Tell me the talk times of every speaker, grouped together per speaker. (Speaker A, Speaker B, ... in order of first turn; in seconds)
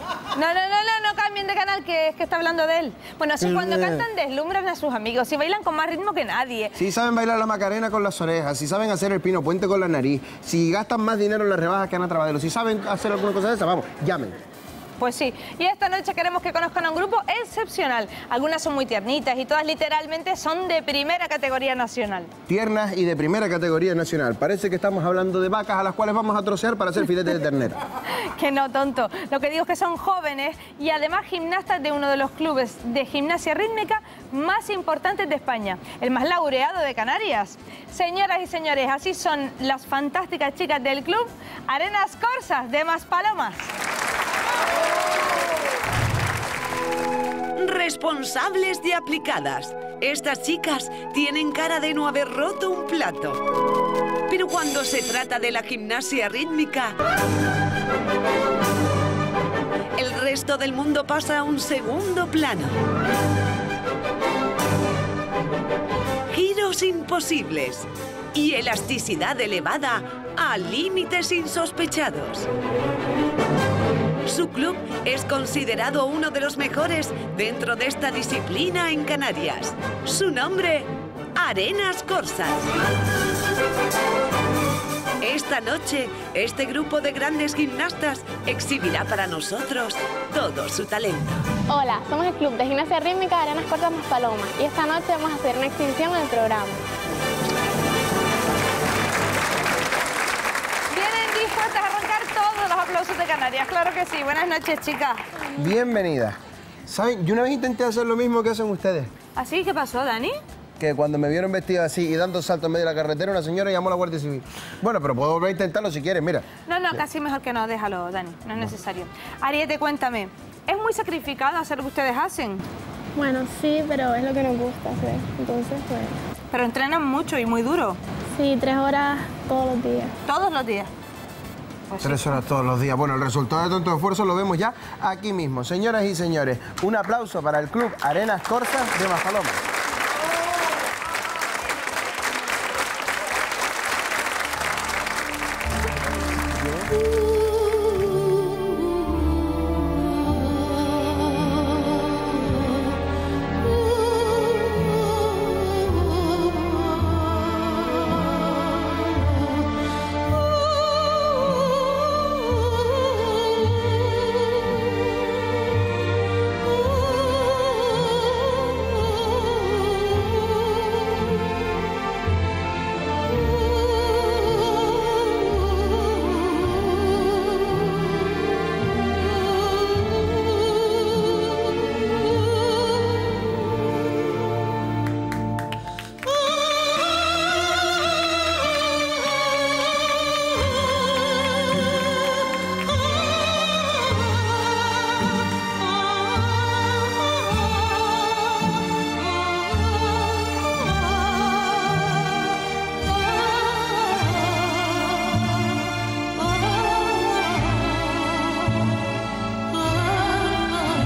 Speaker A: 0.3-6.7, 15.0-22.3, 28.1-43.7, 100.9-105.2, 109.3-110.4, 116.7-122.6, 126.5-128.0, 130.2-130.9, 131.9-132.4
Speaker B: 3.4-4.0, 6.8-14.4, 22.5-27.8, 105.5-109.1, 110.8-116.4, 132.0-139.6
Speaker C: 47.5-53.4, 54.3-57.0, 60.0-62.8, 66.3-72.5, 74.2-82.7, 85.2-91.4
Speaker D: 91.7-96.8, 123.2-126.1, 128.3-130.1